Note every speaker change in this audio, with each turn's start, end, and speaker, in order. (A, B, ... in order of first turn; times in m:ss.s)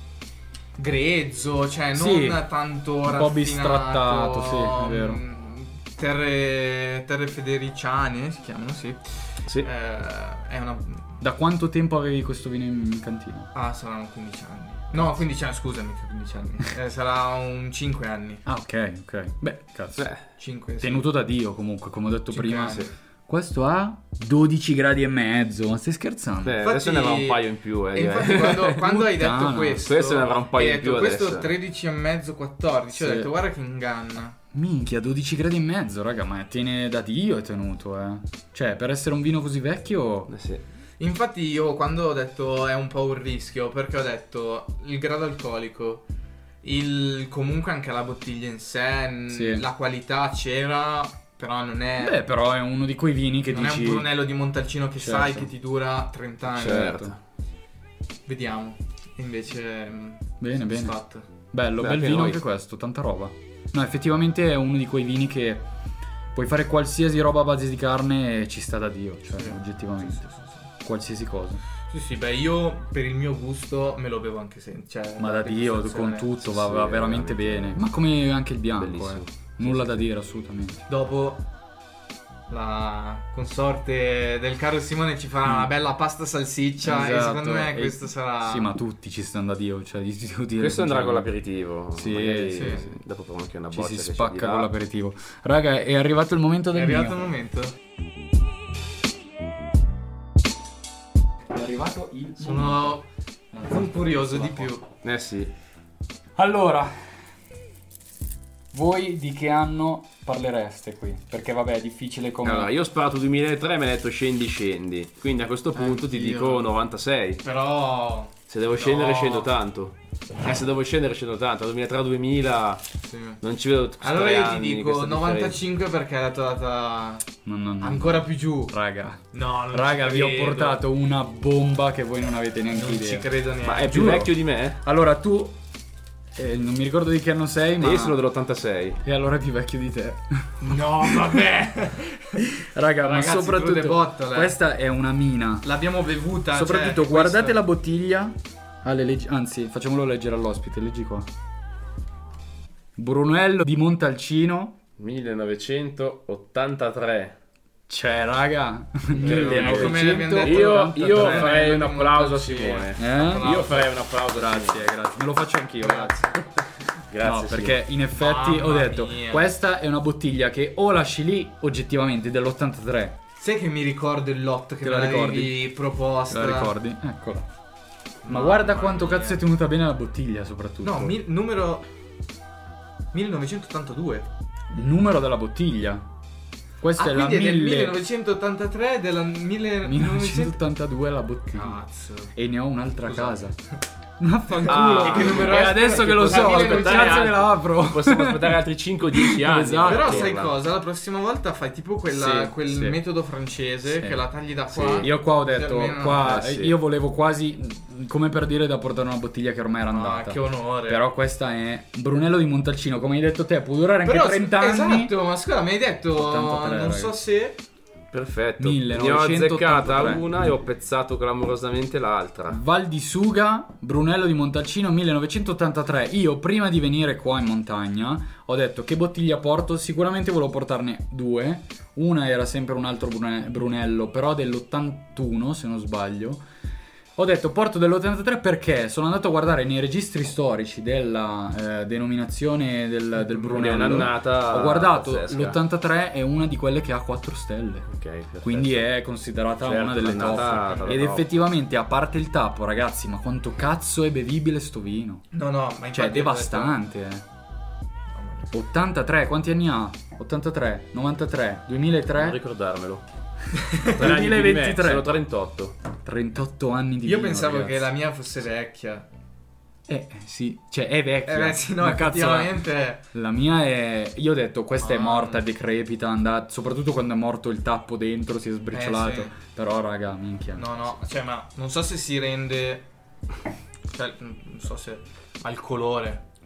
0:00.8-0:11.1 A
0:02.0-0:02.4 B
0:03.0-0:05.2 B
0:11.2-0:13.5 B
0:13.5-0:18.4 A
0:18.5-0:20.1 B
0:20.0-0:20.3 C
0:20.4-0:21.1 A
0:20.8-0:26.6 B
0:22.3-0:22.9 A
0:26.4-0:28.8 C
0:26.6-0:34.4 A
0:28.8-0:29.8 B
0:29.8-0:31.5 C
0:32.9-0:33.3 B
0:34.5-0:40.3 B
0:40.3-0:40.6 C
0:41.0-0:46.0 A
0:46.6-0:52.2 A
0:49.3-0:49.6 B
0:52.0-0:54.1 B
0:53.5-0:57.0 A
0:55.0-0:55.5 B
0:56.6-0:57.2 C
0:56.6-0:57.1 B
0:58.3-1:01.3 A
1:00.4-1:00.9 B
1:01.5-1:05.7 B
1:01.8-1:02.4 C
1:06.3-1:10.2 B
1:09.3-1:10.7 A
1:10.8-1:11.6 B
1:11.9-1:16.3 A
1:15.2-1:20.9 B
1:16.4-1:17.8 C
1:18.8-1:20.1 C
1:20.9-1:21.4 A
1:22.5-1:28.7 A
1:26.8-1:31.3 B
1:30.6-1:34.7 C
1:31.9-1:33.0 B
1:32.6-1:32.8 A
1:33.7-1:37.3 B
1:36.7-1:37.8 A
1:41.5-1:43.0 B
1:42.4-1:43.1 A
1:43.5-1:44.7 B
1:43.7-1:44.9 A
1:45.0-1:45.5 C
1:46.4-1:47.2 B
1:48.7-1:52.7 B
1:52.4-1:57.4 C
1:55.7-1:56.7 A
1:57.4-1:59.5 A
1:58.5-2:02.8 C
2:03.0-2:03.4 A
2:03.4-2:05.6 C
2:04.0-2:07.3 A
2:07.4-2:13.3 B
2:07.8-2:08.8 A
2:09.3-2:10.8 A
2:12.7-2:14.2 A
2:13.6-2:14.8 C
2:13.8-2:15.6 B
2:16.4-2:18.2 B
2:17.8-2:19.0 C
2:19.0-2:21.4 B
2:20.6-2:22.4 A
2:22.4-2:25.7 B
2:23.0-2:24.6 A
2:25.6-2:27.6 A
2:26.5-2:31.3 B
2:33.0-2:34.8 B
2:35.0-2:37.4 C
2:37.9-2:41.6 B
2:39.2-2:44.9 C
2:39.2-2:43.9 A
2:43.0-2:46.4 B
2:45.8-2:46.2 A
2:47.1-2:47.8 C
2:47.2-2:53.2 B
2:48.2-2:49.5 A
2:53.4-2:56.7 A
2:54.8-2:55.7 B
2:56.3-2:57.5 B
2:58.2-2:59.4 A
2:58.3-3:01.2 B
3:00.8-3:01.9 A
3:03.1-3:04.3 A
3:04.7-3:06.1 B
3:06.8-3:08.0 B
3:07.0-3:10.6 A
3:09.8-3:11.8 B
3:11.5-3:12.3 A
3:12.3-3:13.6 B
3:13.0-3:13.4 A
3:14.2-3:18.6 B
3:14.5-3:17.4 A
3:14.7-3:20.6 C
3:19.1-3:20.3 B
3:19.8-3:26.4 A
3:22.2-3:23.0 B
3:23.9-3:24.2 B
3:24.7-3:25.1 C
3:25.0-3:35.1 B
3:26.2-3:26.8 C
3:29.9-3:31.0 A
3:34.0-3:37.6 A
3:36.2-3:37.2 B
3:38.1-3:42.6 C
3:38.6-3:40.5 B
3:42.5-3:56.4 B
3:57.2-4:07.9 B
4:03.2-4:04.1 A
4:03.5-4:05.6 C
4:07.9-4:08.9 C
4:08.4-4:15.3 B
4:09.6-4:11.3 C
4:10.2-4:11.1 A
4:15.3-4:16.8 A
4:15.9-4:17.2 B
4:18.1-4:18.5 A
4:18.5-4:22.4 B
4:22.1-4:23.0 C
4:23.6-4:24.0 A
4:23.9-4:25.8 C
4:23.9-4:25.2 B
4:26.0-4:27.9 B
4:27.0-4:29.1 A
4:29.9-4:41.0 B
4:31.2-4:33.0 A
4:34.8-4:35.4 A
4:38.7-4:39.3 A
4:40.6-4:42.9 A
4:43.9-4:46.2 A